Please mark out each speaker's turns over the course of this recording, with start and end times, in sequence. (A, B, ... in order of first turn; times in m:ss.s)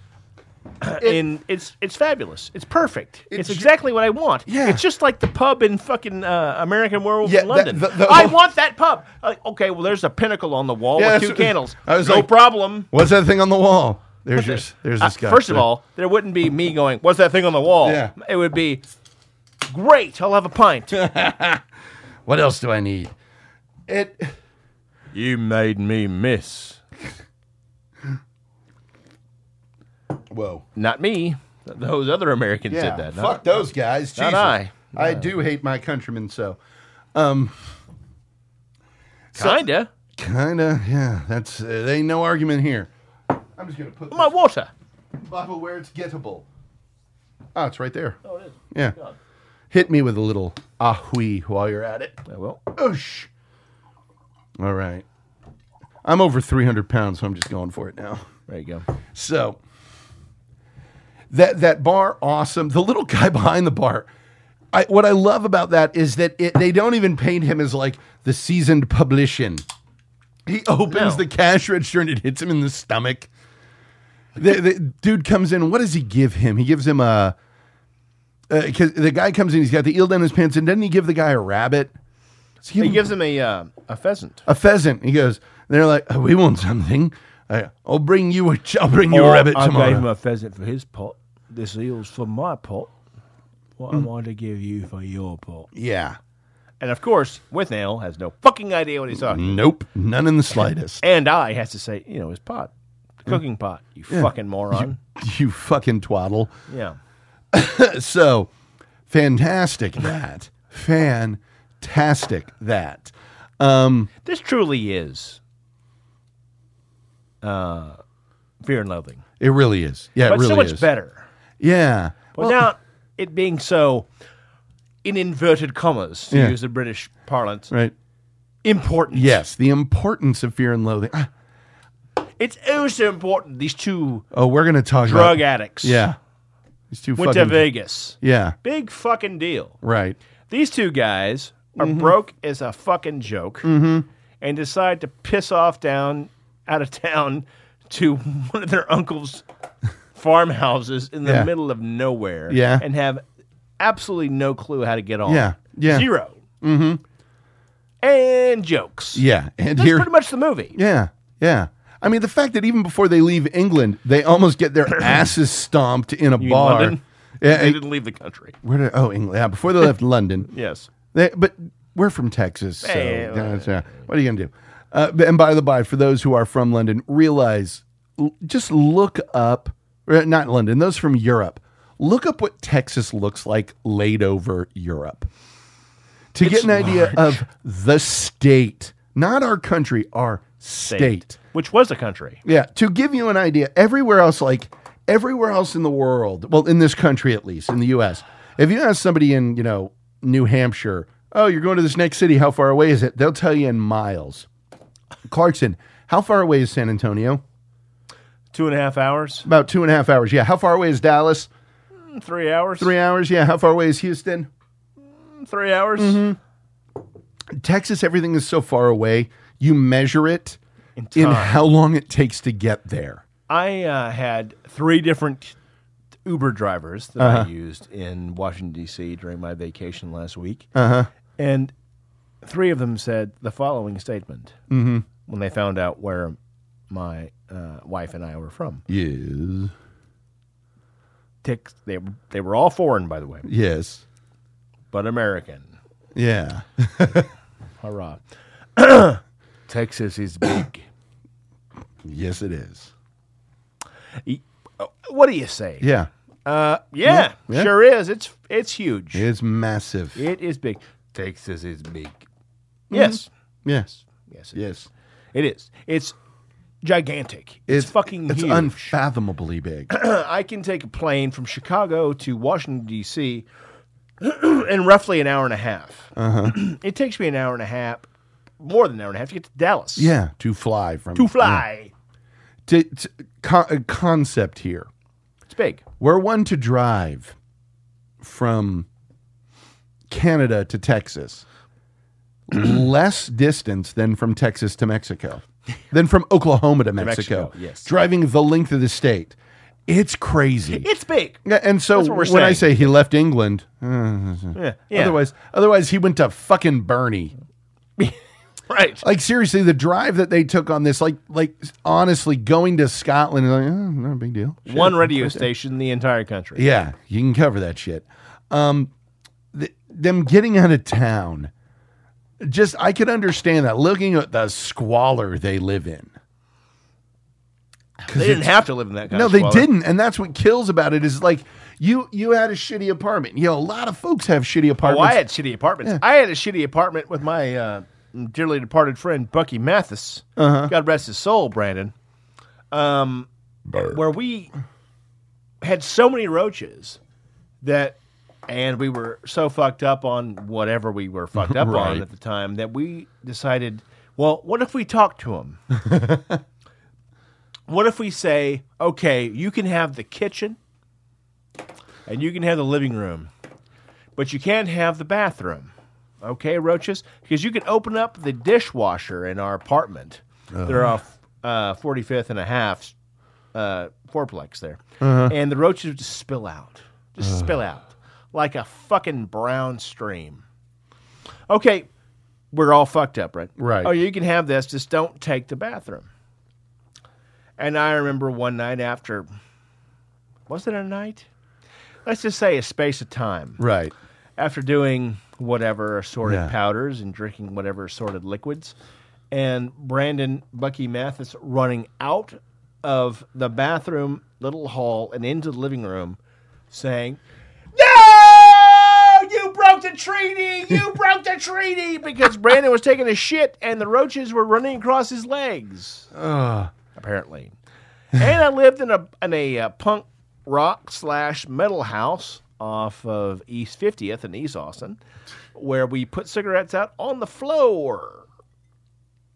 0:00.8-0:12.9 A
0:03.3-0:03.7 B
0:04.5-0:04.8 B
0:07.2-0:08.4 B
0:11.0-0:12.3 B
0:12.9-0:15.6 B
0:14.3-0:18.8 A
0:17.8-0:18.1 B
0:19.7-0:21.0 A
0:20.9-0:21.6 B
0:22.2-0:23.1 B
0:23.9-0:24.3 B
0:25.1-0:26.8 A
0:30.3-0:30.6 B
0:30.8-0:33.4 A
0:32.7-0:36.6 B
0:34.2-0:35.3 A
0:37.1-0:37.7 B
0:39.3-0:39.6 B
0:39.4-0:39.9 A
0:40.2-0:42.9 B
0:43.6-0:44.3 B
0:44.1-0:44.7 A
0:45.2-0:46.4 B
0:47.5-0:48.2 B
0:48.2-0:49.2 A
0:49.7-0:52.2 B
0:52.3-0:52.6 A
0:52.7-0:53.3 B
0:54.6-0:55.0 B
0:56.0-0:58.3 B
0:58.5-0:58.8 A
0:59.1-0:59.6 B
1:01.3-1:04.1 B
1:04.7-1:09.6 B
1:10.4-1:13.3 B
1:10.9-1:11.2 A
1:14.4-1:17.3 B
1:18.5-1:21.9 B
1:22.6-1:23.1 B
1:22.8-1:24.4 A
1:24.4-1:30.0 B
1:29.1-1:32.9 A
1:33.8-1:35.7 A
1:35.7-1:36.2 B
1:36.8-1:39.6 A
1:39.2-1:41.0 B
1:41.0-1:42.7 A
1:43.2-1:45.0 A
1:44.1-1:46.5 B
1:46.7-1:47.0 A
1:47.5-1:48.5 B
1:49.1-1:54.1 B
1:54.2-1:55.4 A
1:57.4-1:58.0 A
1:58.6-1:59.2 A
1:59.4-2:00.8 B
2:00.3-2:01.2 A
2:01.6-2:02.6 B
2:02.4-2:04.1 A
2:05.0-2:07.7 A
2:06.3-2:06.6 B
2:08.6-2:09.4 A
2:09.1-2:11.3 B
2:12.4-2:14.3 A
2:14.3-2:16.2 B
2:15.0-2:16.0 A
2:16.9-2:17.6 B
2:17.2-2:19.8 A
2:18.2-2:18.6 B
2:19.8-2:20.2 B
2:20.5-2:23.7 A
2:21.8-2:22.1 B
2:23.6-2:24.0 B
2:24.4-2:29.4 A
2:30.1-2:33.2 A
2:32.5-2:32.8 B
2:33.8-2:36.4 A
2:35.2-2:36.1 B
2:36.6-2:37.0 B
2:38.0-2:39.2 A
2:39.1-2:40.1 B
2:39.8-2:40.8 A
2:40.7-2:47.8 B
2:46.4-2:48.6 A
2:48.6-2:50.5 B
2:50.5-2:50.9 A
2:51.1-3:05.3 B
2:52.8-2:54.0 A
3:06.3-3:11.4 B
3:06.4-3:07.4 A
3:10.9-3:12.4 A
3:12.4-3:24.5 B
3:25.3-3:27.4 B
3:28.5-3:29.4 A
3:29.4-3:31.5 B
3:32.0-3:32.9 A
3:32.8-3:34.5 B
3:35.1-3:36.2 A
3:36.0-3:36.4 B
3:37.5-3:40.6 B
3:41.0-3:41.6 A
3:41.1-3:43.2 B
3:43.5-3:45.5 A
3:46.2-3:50.7 A
3:47.2-3:47.5 B
3:50.7-3:51.1 B
3:51.4-3:51.7 A
3:52.4-3:54.5 A
3:54.7-3:55.1 B
3:55.2-3:56.4 A
3:56.9-3:58.8 A
3:58.9-3:59.7 B
4:01.4-4:03.5 A
4:03.4-4:04.0 B
4:04.9-4:05.7 A
4:06.1-4:07.3 B
4:07.8-4:08.2 A
4:08.8-4:10.8 A
4:12.0-4:12.9 B
4:14.2-4:15.9 A
4:15.8-4:16.1 B
4:16.4-4:19.2 A
4:17.0-4:17.7 B
4:19.1-4:20.2 B
4:20.2-4:22.2 A
4:22.9-4:23.3 A
4:22.9-4:23.9 B
4:23.9-4:24.6 A
4:24.5-4:24.9 B
4:25.3-4:26.1 A
4:26.8-4:28.9 A
4:27.7-4:29.9 B
4:29.9-4:33.4 A
4:34.2-4:38.0 A
4:36.2-4:36.6 B
4:38.6-4:40.1 A
4:40.0-4:41.6 B
4:41.2-4:41.9 A
4:42.7-4:44.9 B
4:45.5-4:45.8 A
4:46.0-4:47.3 B
4:48.2-4:48.9 B
4:50.1-4:51.4 B
4:52.5-4:59.3 B
4:57.0-4:57.9 A
4:59.9-5:00.9 B
5:00.7-5:01.4 A
5:01.4-5:07.3 B
5:01.9-5:02.9 A
5:04.5-5:05.2 A
5:08.7-5:09.0 A
5:09.0-5:15.5 B
5:14.7-5:16.6 A
5:16.5-5:18.9 B
5:19.5-5:21.5 B
5:22.4-5:26.1 B
5:28.0-5:28.5 B
5:28.1-5:29.7 A
5:29.1-5:35.2 B
5:34.8-5:41.9 A
5:40.4-5:40.7 B
5:42.7-5:43.3 A
5:43.7-5:44.0 B
5:43.9-5:44.5 A
5:45.6-5:47.0 A
5:47.6-5:55.6 A
5:51.4-5:52.0 B
5:55.8-5:56.4 B
5:57.7-6:00.6 A
6:02.1-6:03.3 A
6:04.2-6:05.7 A
6:06.2-6:12.9 A
6:10.5-6:10.9 B
6:13.5-6:20.4 A
6:15.0-6:15.3 B
6:17.2-6:17.5 B
6:21.5-6:21.9 A
6:22.5-6:26.1 A
6:23.6-6:23.9 B
6:27.6-6:29.3 A
6:30.5-6:31.2 A
6:32.0-6:33.6 A
6:33.6-6:33.9 B
6:34.4-6:38.7 A
6:36.2-6:36.5 B
6:39.3-6:46.2 A
6:46.7-6:47.2 A
6:47.7-6:56.1 A
6:56.1-6:56.7 B
6:56.9-6:57.5 A
6:58.1-7:05.0 A
7:05.5-7:08.2 A